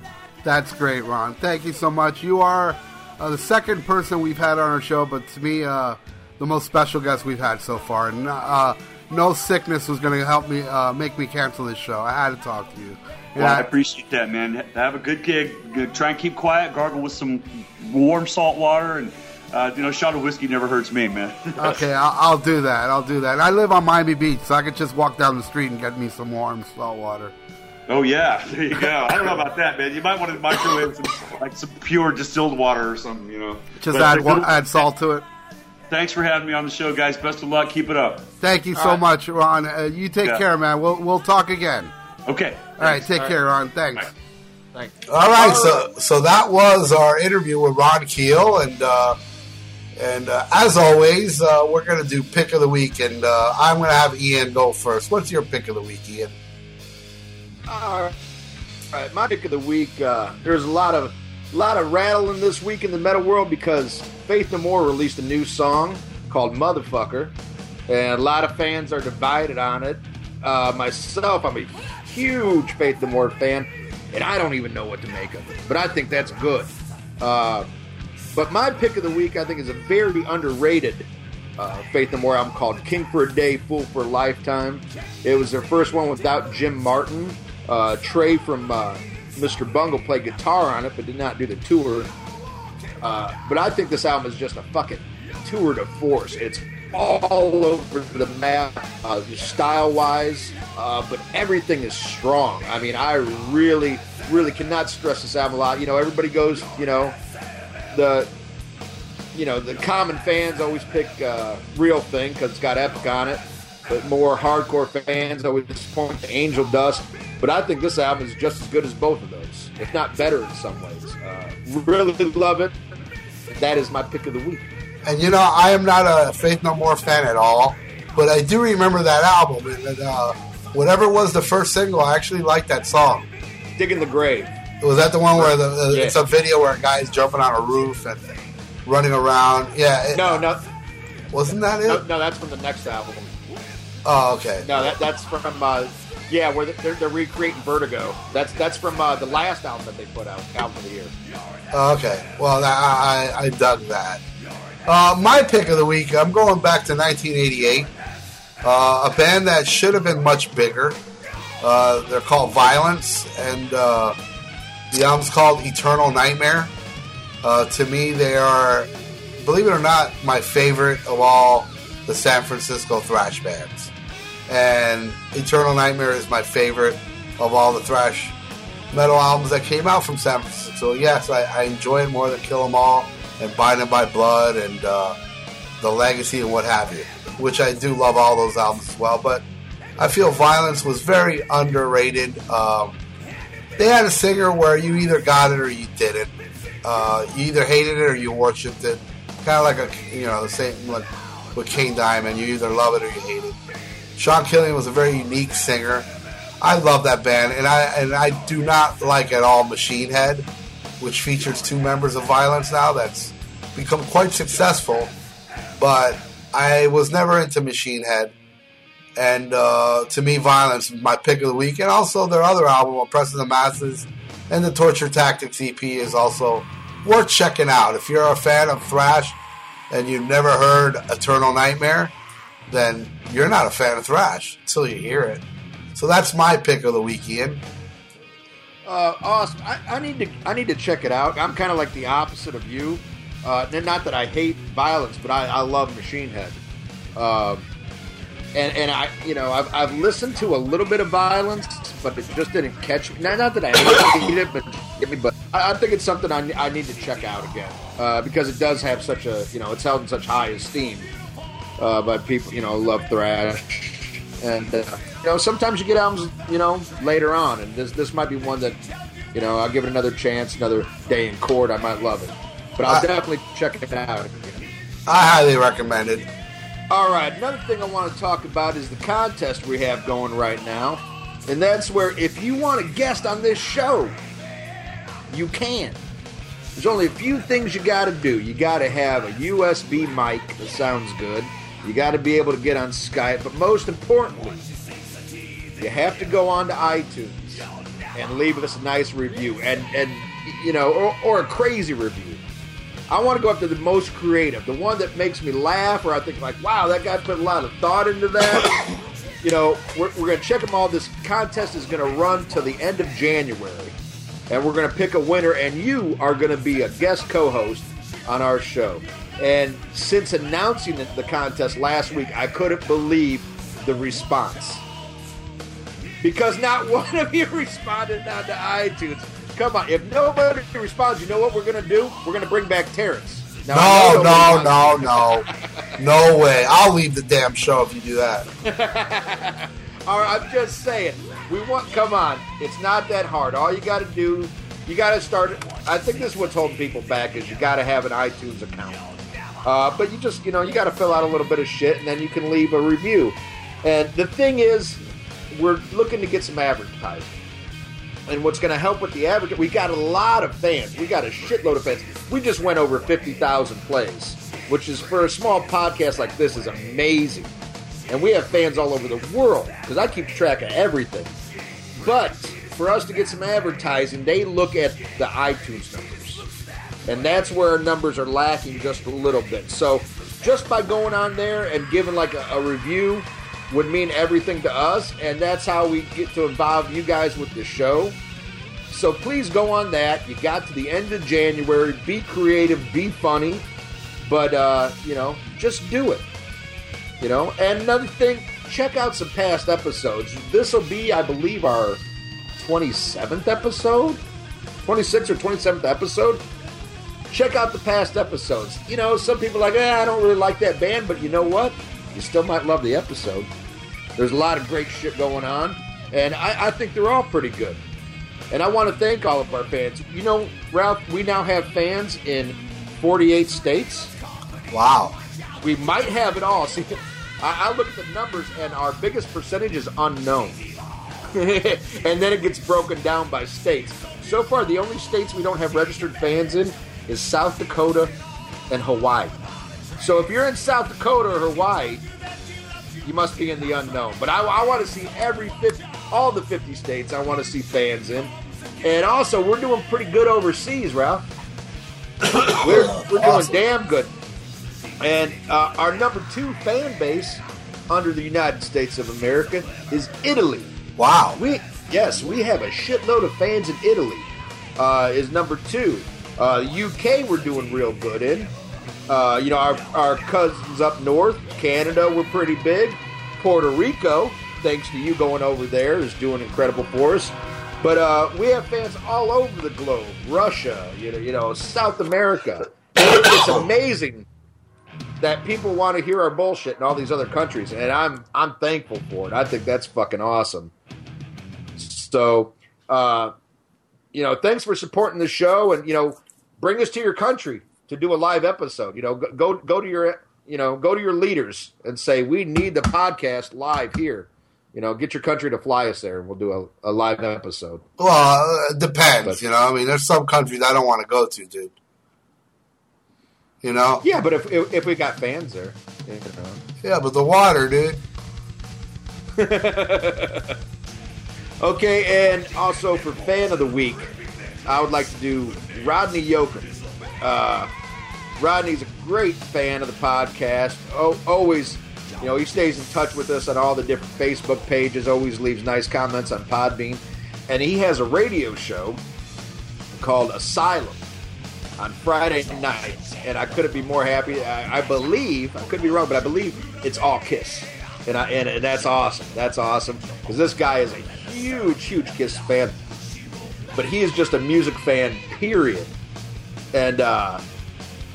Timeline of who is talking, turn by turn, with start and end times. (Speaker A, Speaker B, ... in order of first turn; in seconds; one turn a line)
Speaker A: 0.4-13.7
Speaker B: 13.4-21.8
Speaker A: 21.6-27.3
Speaker B: 27.9-34.8
Speaker A: 33.8-35.3
Speaker B: 35.9-38.3
Speaker A: 38.4-41.9
Speaker B: 42.3-43.2
Speaker A: 42.8-44.1
Speaker C: 44.8-45.8
Speaker A: 45.1-49.2
Speaker A: 50.0-56.3
Speaker C: 57.7-58.1
Speaker C: 58.9-67.3
Speaker C: 67.9-77.7
Speaker C: 78.3-92.1
Speaker C: 93.0-107.2
Speaker C: 107.9-108.3
Speaker C: 109.3-122.8
Speaker C: 123.5-124.7
Speaker A: 125.0-133.3
Speaker C: 133.8-134.5
Speaker A: 134.8-140.4
Speaker C: 135.4-136.2
Speaker C: 140.1-140.6
Speaker A: 141.3-142.0
Speaker C: 141.8-143.4
Speaker A: 144.1-144.7
Speaker C: 144.6-151.1
Speaker A: 151.7-154.2
Speaker A: 154.9-157.9
Speaker A: 158.6-161.0
Speaker A: 161.6-164.2
Speaker A: 164.9-166.7
Speaker A: 167.4-173.9
Speaker A: 174.5-178.4
Speaker A: 178.9-185.2
Speaker A: 185.8-189.4
Speaker A: 190.0-193.0
Speaker A: 193.8-203.6
Speaker A: 204.2-206.1
Speaker A: 206.6-210.5
Speaker A: 211.0-215.1
Speaker A: 215.8-218.3
Speaker A: 219.2-229.4
Speaker A: 229.9-232.1
Speaker A: 232.7-235.4
Speaker A: 236.0-237.6
Speaker C: 238.9-246.6
Speaker C: 247.2-247.7
Speaker C: 248.5-261.1
Speaker C: 261.8-268.8
Speaker C: 269.3-274.7
Speaker A: 275.1-276.3
Speaker C: 276.9-284.2
Speaker C: 285.3-286.0
Speaker C: 286.8-294.6
Speaker C: 295.8-302.4
Speaker C: 303.1-308.8
Speaker C: 309.4-314.0
Speaker C: 314.5-324.9
Speaker C: 326.2-336.0
Speaker A: 333.7-338.5
Speaker C: 338.6-349.0
Speaker C: 349.6-357.4
Speaker C: 358.3-367.5
Speaker C: 368.1-371.4
Speaker C: 372.0-376.4
Speaker C: 377.1-388.2
Speaker C: 388.9-393.7
Speaker C: 394.2-396.3
Speaker C: 397.2-402.0
Speaker C: 402.6-404.2
Speaker C: 404.8-406.4
Speaker C: 407.3-413.5
Speaker C: 414.2-417.8
Speaker C: 418.5-424.1
Speaker A: 424.7-425.2
Speaker C: 425.6-430.6
Speaker C: 431.3-438.1
Speaker C: 438.7-439.4
Speaker C: 440.0-442.1
Speaker C: 443.0-451.2
Speaker C: 452.4-454.1
Speaker A: 452.4-453.6
Speaker C: 455.0-460.7
Speaker A: 461.0-461.4
Speaker C: 461.4-468.5
Speaker C: 469.1-484.3
Speaker C: 485.2-490.7
Speaker C: 491.8-493.3
Speaker C: 494.1-507.9
Speaker A: 508.0-511.7
Speaker A: 513.6-514.0
Speaker C: 514.0-516.6
Speaker A: 516.8-518.0
Speaker C: 519.4-520.6
Speaker C: 521.6-524.1
Speaker C: 524.7-527.7
Speaker C: 528.4-539.0
Speaker C: 539.9-541.1
Speaker C: 541.8-552.8
Speaker C: 553.7-555.9
Speaker C: 556.7-557.4